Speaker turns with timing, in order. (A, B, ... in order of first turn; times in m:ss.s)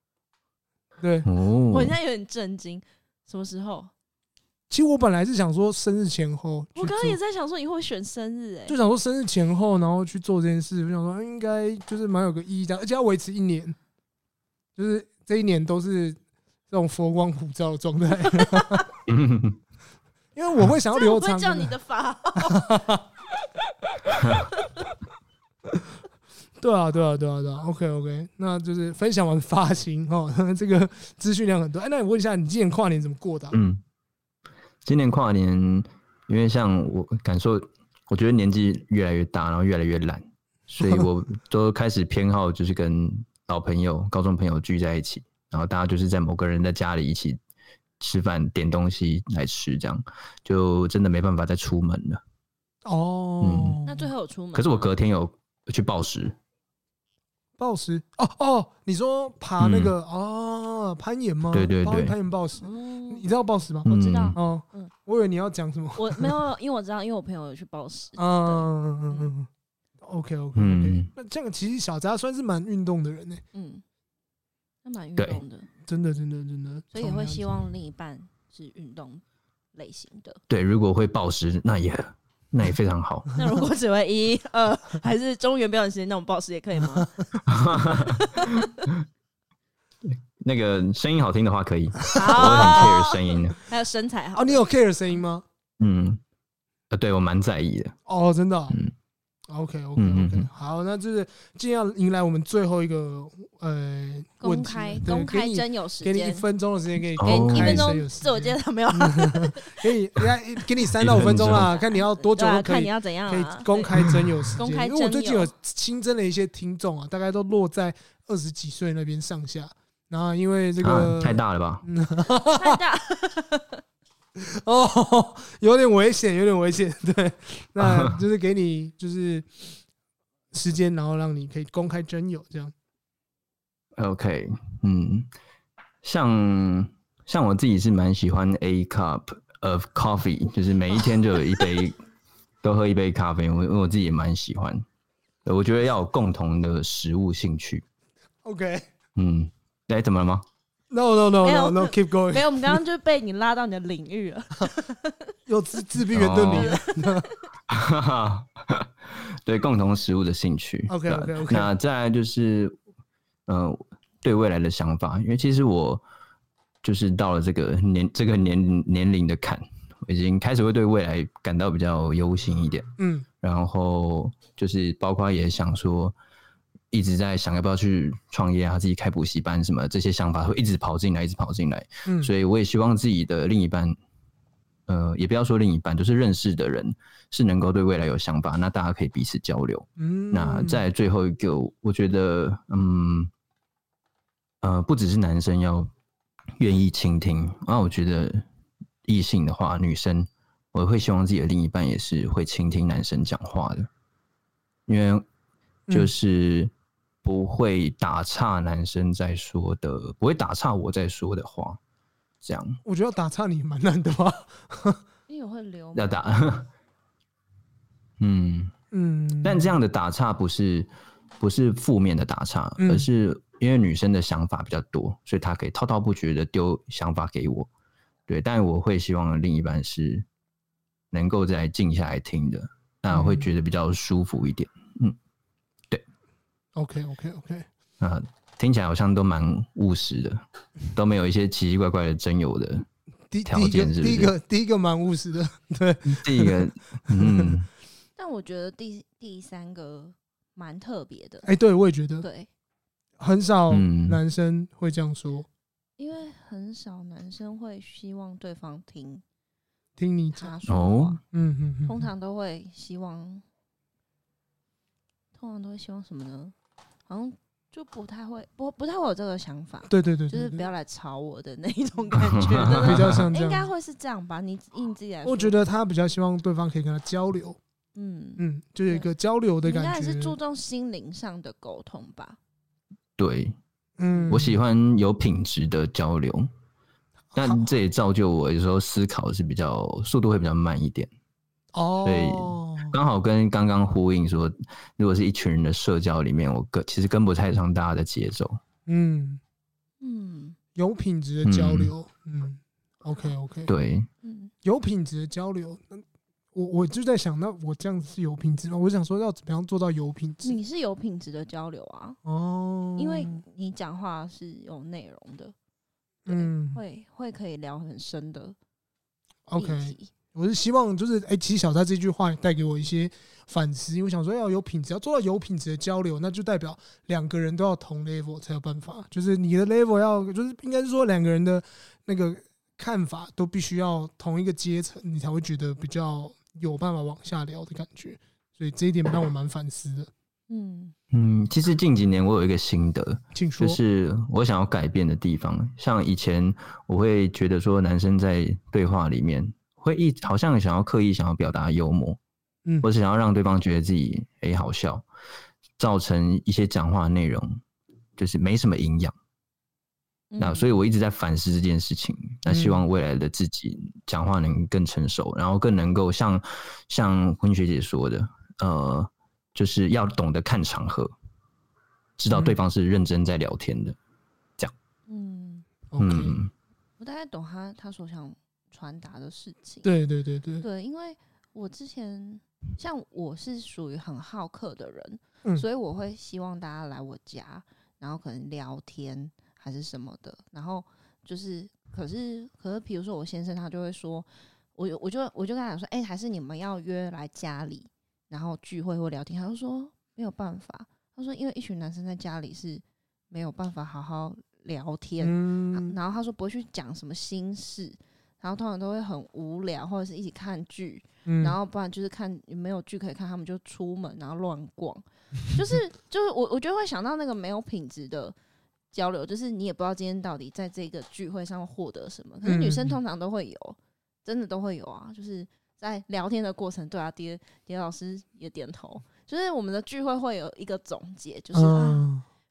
0:01.0-0:01.3 A
0:01.2-0:02.0 B
0:01.7-0:03.9 C
0:04.7-0:07.2 A
0:06.8-0:08.8 C
0:08.7-0:13.8 A
0:14.8-0:16.2 A
0:16.7-0:18.9 A
0:18.3-0:18.8 C
0:19.1-0:19.6 B
0:20.4-0:21.8 A
0:20.9-0:22.8 C
0:22.4-0:23.0 A
0:24.2-0:24.5 B
0:26.6-0:33.6 A
0:33.5-0:33.8 B
0:34.8-0:47.4 B
0:48.0-0:52.2 B
0:52.8-0:54.1 A
0:53.4-0:53.8 B
0:53.8-0:54.9 C
0:54.6-0:56.4 B
0:57.6-1:06.4 A
0:59.6-0:59.9 B
1:01.5-1:02.1 B
1:02.6-1:03.3 C
1:03.8-1:04.9 C
1:03.9-1:04.4 B
1:06.0-1:09.3 C
1:08.2-1:09.5 A
1:10.0-1:13.4 A
1:10.6-1:11.1 B
1:13.5-1:13.8 C
1:14.8-1:15.7 C
1:15.2-1:15.4 B
1:15.9-1:17.6 A
1:16.9-1:19.2 C
1:19.7-1:20.4 C
1:20.5-1:23.3 B
1:23.4-1:28.7 C
1:27.5-1:29.0 B
1:30.0-1:33.6 B
1:32.1-1:34.6 C
1:32.3-1:32.9 A
1:34.4-1:35.5 A
1:35.8-1:36.2 B
1:36.9-1:38.0 B
1:38.1-1:38.8 A
1:39.5-2:02.8 A
1:40.0-1:40.5 B
1:44.4-1:46.5 C
1:47.2-1:47.9 B
1:47.2-1:49.9 C
1:50.9-1:51.7 B
1:51.4-1:55.5 C
1:54.0-1:54.5 B
2:00.8-2:01.8 B
2:02.4-2:03.8 C
2:04.4-2:09.7 A
2:07.8-2:08.2 B
2:10.5-2:12.7 A
2:14.0-2:15.3 B
2:16.0-2:22.0 B
2:22.6-2:24.8 B
2:25.4-2:27.8 B
2:28.4-2:28.9 A
2:29.2-2:30.5 B
2:30.9-2:32.8 A
2:31.4-2:35.3 C
2:35.5-2:37.3 A
2:36.1-2:36.8 B
2:36.5-2:37.4 C
2:37.7-2:42.8 B
2:40.9-2:41.7 A
2:43.5-2:46.0 B
2:46.8-2:56.2 B
2:53.0-2:53.3 A
2:56.9-3:04.0 B
3:02.0-3:02.3 A
3:04.9-3:13.3 B
3:10.0-3:10.8 A
3:14.6-3:15.9 B
3:16.6-3:18.5 B
3:19.0-3:23.9 B
3:24.9-3:25.2 B
3:25.9-3:26.1 A
3:25.9-3:26.7 B
3:27.2-3:31.8 B
3:32.4-3:32.8 B
3:32.8-3:35.0 A
3:35.3-3:36.2 C
3:36.0-3:36.7 B
3:38.2-3:38.7 B
3:38.9-3:39.7 A
3:39.4-3:47.7 B
3:42.8-3:43.1 A
3:48.3-3:50.3 B
3:51.1-3:55.2 B
3:53.1-3:53.5 A
3:56.8-3:57.7 A
3:58.0-4:02.9 B
4:03.3-4:07.6 A
4:03.5-4:04.3 B
4:06.1-4:07.7 B
4:08.2-4:11.5 C
4:11.4-4:12.3 A
4:12.2-4:12.5 C
4:13.2-4:15.5 A
4:13.7-4:14.2 B
4:16.0-4:19.2 C
4:20.0-4:20.5 A
4:20.3-4:21.2 C
4:20.7-4:21.2 B
4:21.3-4:22.1 A
4:21.9-4:23.4 C
4:25.4-4:26.5 C
4:27.1-4:35.6 C
4:29.9-4:30.7 A
4:32.2-4:33.3 B
4:32.6-4:33.7 A
4:35.2-4:37.6 A
4:38.0-4:39.1 C
4:38.4-4:40.4 A
4:39.6-4:42.4 C
4:43.2-4:43.6 B
4:44.0-4:44.6 A
4:44.1-4:44.4 C
4:44.3-4:46.5 B
4:47.3-4:47.6 A
4:47.4-4:51.1 B
4:51.7-4:53.0 A
4:52.0-4:58.6 B
4:58.9-4:59.4 A
5:00.0-5:00.6 C
5:00.8-5:03.7 A
5:01.4-5:01.9 B
5:03.7-5:04.1 B
5:04.2-5:04.5 C
5:04.6-5:10.6 A
5:10.4-5:12.2 C
5:12.2-5:13.4 A
5:13.0-5:15.6 C
5:16.3-5:16.8 A
5:16.3-5:18.6 C
5:19.5-5:40.1 A
5:19.6-5:20.1 C
5:40.5-5:40.9 C
5:41.1-5:52.2 B
5:43.3-5:43.8 A
5:52.8-5:55.0 B
5:55.8-5:57.6 B
5:58.2-5:59.2 B
6:00.3-6:00.7 C
6:00.4-6:11.1 B
6:02.5-6:02.8 A
6:12.2-6:14.0 B
6:12.3-6:12.6 A
6:15.1-6:15.7 C
6:15.9-6:16.4 A
6:16.0-6:16.5 B
6:17.0-6:19.9 C
6:19.8-6:20.7 A
6:20.6-6:58.4 C
6:45.2-6:46.0 A
6:51.3-6:51.6 A
6:58.9-7:12.1 C
7:02.4-7:03.0 A
7:11.5-7:12.2 A